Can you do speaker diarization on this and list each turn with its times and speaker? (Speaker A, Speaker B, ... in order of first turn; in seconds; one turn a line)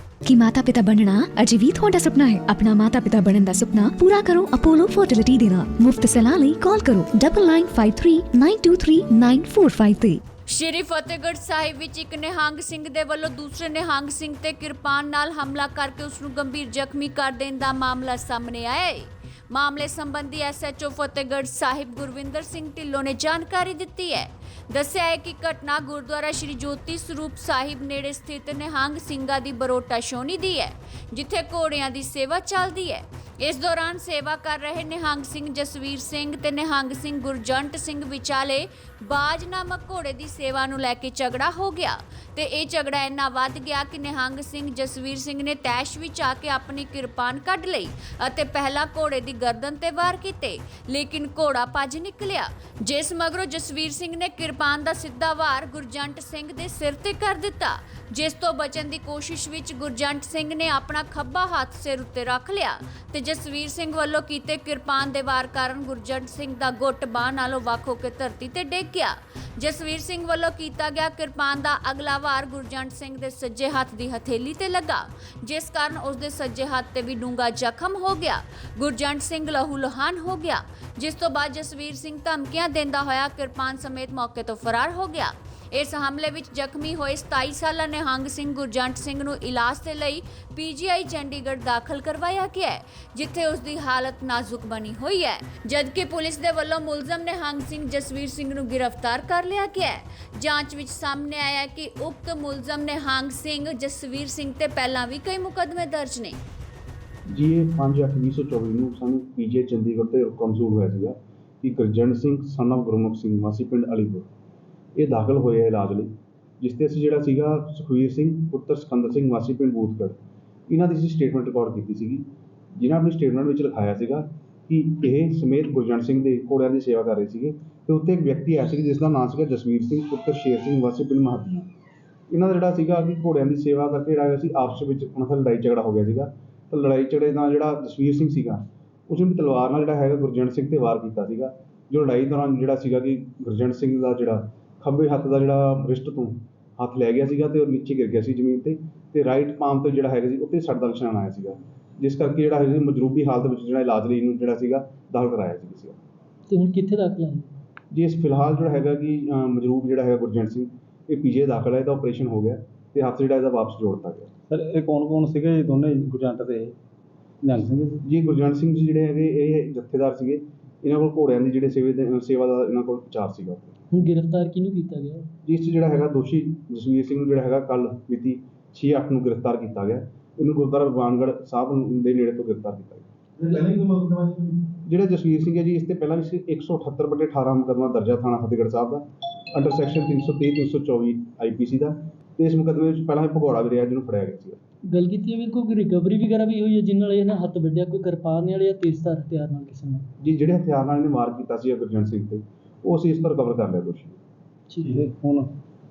Speaker A: 0.2-10.2
Speaker B: 10.5-106.4
Speaker C: 107.3-114.3
Speaker C: 115.0-120.2
Speaker C: 120.7-131.7
Speaker C: 132.3-156.0
Speaker D: 156.5-157.5
Speaker C: 157.9-164.3
Speaker E: 164.5-166.7
Speaker E: 167.4-168.0
Speaker C: 168.0-173.8
Speaker D: 173.9-175.3
Speaker C: 175.4-183.7
Speaker C: 184.8-194.6
Speaker D: 194.9-200.1
Speaker C: 200.2-204.2
Speaker D: 204.7-205.1
Speaker E: 204.8-205.5